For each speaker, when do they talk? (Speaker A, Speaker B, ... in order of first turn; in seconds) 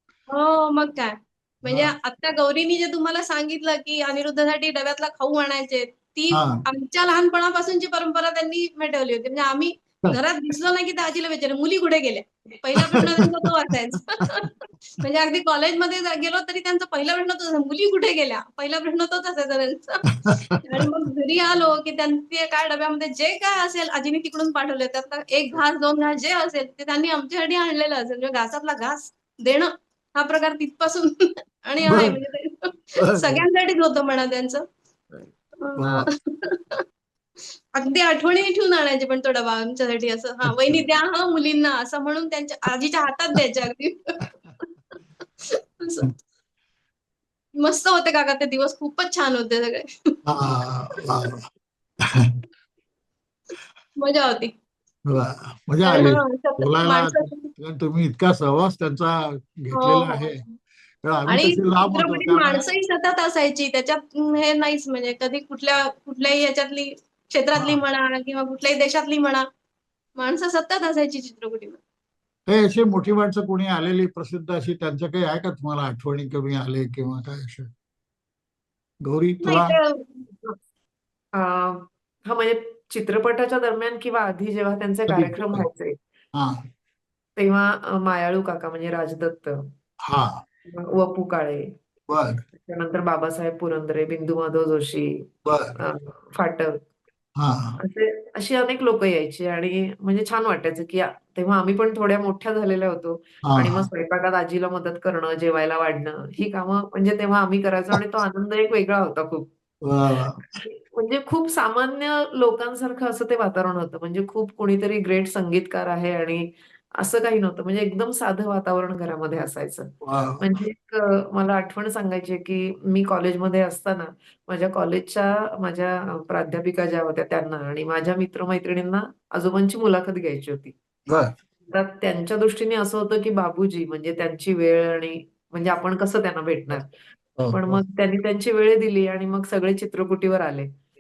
Speaker A: 0.3-34.6, 35.6-36.8, 37.7-44.2, 45.4-46.1, 47.6-50.2, 54.0-54.5, 55.9-57.5, 59.7-60.3, 61.3-69.5, 70.2-71.8, 79.4-80.0
Speaker B: 1.7-1.9, 6.3-6.6, 12.8-13.5, 14.2-14.5, 20.2-20.9, 31.9-32.2, 33.0-33.5, 35.8-36.1, 40.4-40.8, 50.3-51.5, 52.1-52.3, 55.1-60.4, 61.0-62.6, 67.6-67.8, 72.5-77.7, 79.0-79.8, 85.1-85.7, 86.3-86.7, 90.0-90.4, 92.1-92.4, 95.5-95.8, 97.4-97.8, 103.4-103.9, 109.8-110.5, 120.0-120.5, 131.1-131.3, 137.4-137.8
Speaker C: 81.3-86.0, 87.4-89.7, 90.7-91.7, 92.5-95.3, 95.8-96.8, 97.8-109.5, 110.6-130.7, 131.7-136.9, 137.5-140.7